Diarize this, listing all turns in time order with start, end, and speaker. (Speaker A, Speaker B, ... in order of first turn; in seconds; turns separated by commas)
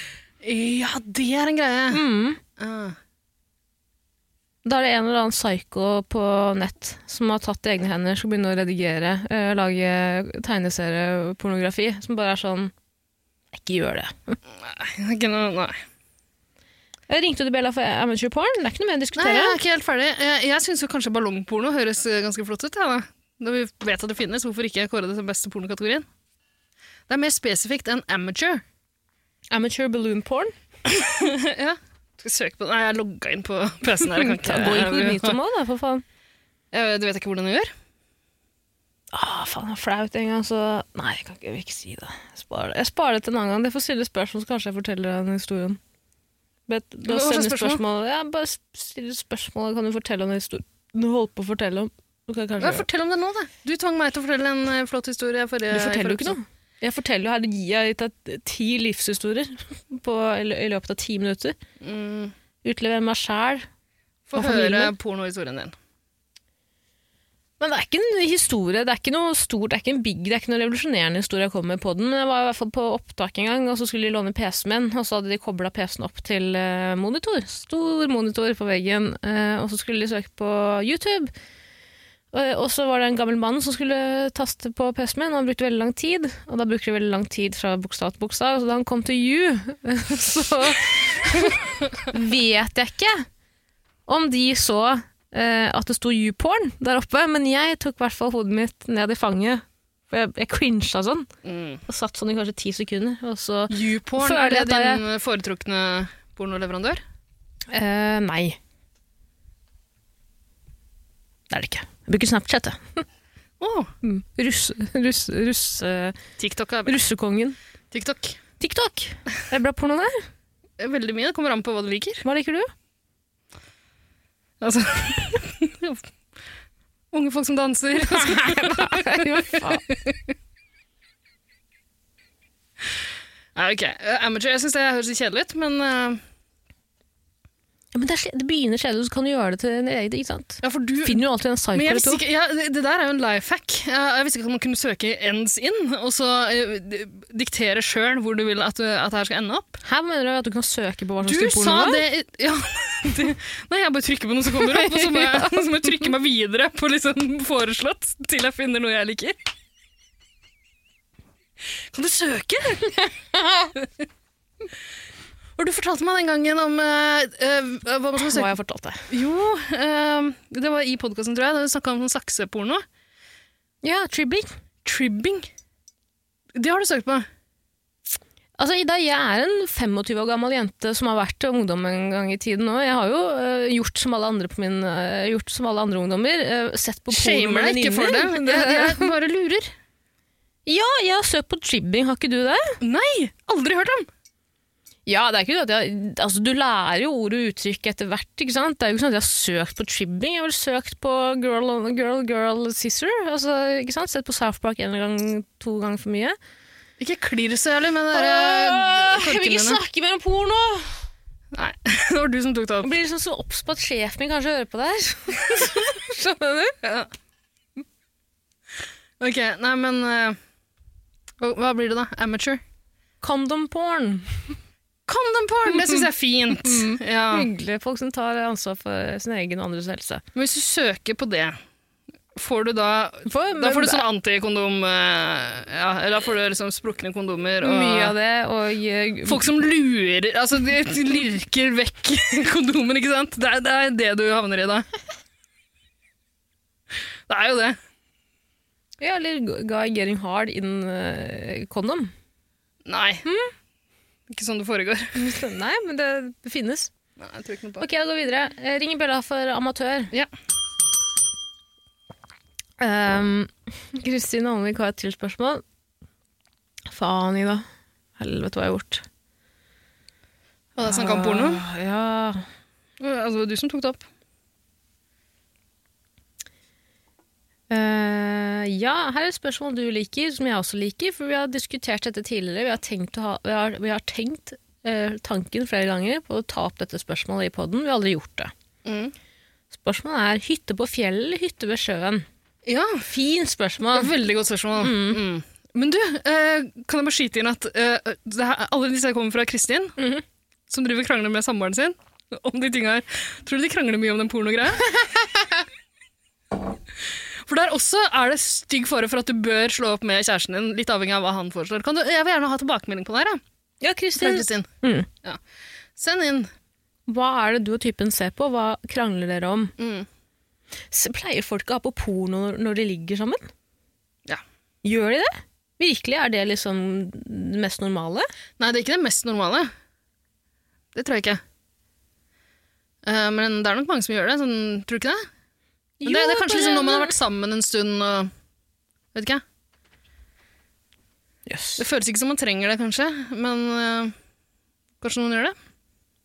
Speaker A: 0.4-2.0, Speaker B: 1.9-2.4, Speaker A: 2.6-3.0, Speaker B: 4.6-12.7, Speaker B: 13.5-14.4, Speaker A: 14.6-15.8, Speaker B: 17.1-19.6, Speaker A: 19.2-26.1, Speaker A: 27.1-28.6, Speaker B: 29.5-30.5, Speaker A: 30.9-35.4, Speaker B: 34.1-36.0, Speaker A: 36.7-37.7, Speaker B: 39.1-45.8, Speaker B: 46.7-52.8, Speaker A: 47.1-47.8, Speaker A: 52.6-56.4, Speaker B: 55.7-61.5, Speaker A: 61.8-62.3, Speaker B: 62.6-63.6, Speaker A: 64.3-65.7, Speaker B: 64.3-64.9, Speaker B: 67.6-81.3, Speaker B: 82.3-93.2, Speaker B: 94.1-101.3, Speaker A: 101.4-101.8, Speaker B: 101.9-105.0, Speaker A: 103.7-107.0, Speaker B: 107.7-108.6, Speaker B: 111.5-113.0, Speaker A: 113.6-113.9, Speaker B: 114.0-116.2, Speaker A: 116.4-116.9, Speaker B: 116.8-117.5, Speaker A: 117.9-118.4, Speaker B: 118.6-120.2, Speaker A: 120.8-122.2, Speaker B: 122.2-122.7, Speaker A: 124.6-126.0, Speaker A: 127.1-130.2, Speaker B: 128.0-129.8, Speaker A: 133.6-136.2, Speaker B: 137.9-142.2, Speaker A: 140.6-141.2, Speaker A: 141.7-149.8, Speaker B: 149.8-152.0, Speaker A: 151.2-159.4, Speaker B: 154.6-155.9, Speaker A: 161.9-163.0, Speaker B: 163.0-163.7, Speaker A: 165.6-168.5, Speaker B: 168.2-169.1, Speaker A: 169.1-172.8, Speaker B: 173.8-174.5, Speaker A: 174.8-175.5, Speaker A: 176.5-177.3, Speaker B: 178.6-189.1, Speaker A: 187.1-189.7, Speaker B: 190.7-192.8, Speaker A: 192.8-194.1, Speaker B: 195.1-206.4, Speaker A: 207.0-209.8, Speaker B: 208.1-211.0, Speaker A: 211.5-212.9, Speaker B: 212.8-216.8, Speaker A: 216.8-217.1, Speaker A: 219.2-220.4, Speaker A: 221.4-222.6, Speaker B: 223.2-224.6, Speaker A: 225.1-227.5, Speaker B: 225.7-226.0, Speaker B: 226.6-230.2, Speaker A: 230.3-231.6, Speaker A: 232.3-238.1, Speaker B: 233.2-234.0, Speaker B: 237.6-239.4, Speaker A: 239.3-244.9, Speaker A: 247.3-247.8, Speaker B: 249.0-252.1, Speaker A: 252.8-253.2, Speaker B: 253.2-253.5, Speaker A: 254.3-255.2, Speaker B: 255.1-256.9, Speaker A: 257.2-257.9, Speaker B: 257.8-260.1, Speaker B: 262.8-265.6, Speaker B: 266.9-267.6, Speaker B: 268.2-269.0, Speaker A: 270.8-271.6, Speaker B: 270.8-272.5, Speaker A: 273.0-274.0, Speaker B: 277.7-288.5, Speaker A: 288.8-289.1, Speaker B: 289.7-292.2, Speaker A: 292.6-293.1, Speaker B: 293.1-294.1, Speaker A: 293.9-299.9, Speaker B: 294.8-295.2, Speaker B: 300.0-300.2, Speaker A: 300.7-304.9, Speaker B: 304.8-305.6, Speaker A: 307.4-313.4, Speaker B: 313.8-315.1, Speaker A: 314.2-314.7, Speaker A: 315.9-316.5, Speaker B: 317.1-319.7, Speaker A: 319.8-320.1, Speaker B: 320.9-323.5, Speaker B: 324.8-328.3, Speaker A: 328.6-329.7, Speaker A: 330.9-331.4, Speaker A: 333.0-335.2, Speaker B: 336.0-337.2, Speaker A: 336.0-338.3, Speaker A: 339.1-339.4, Speaker B: 341.5-341.8, Speaker A: 341.8-344.1, Speaker A: 345.0-345.5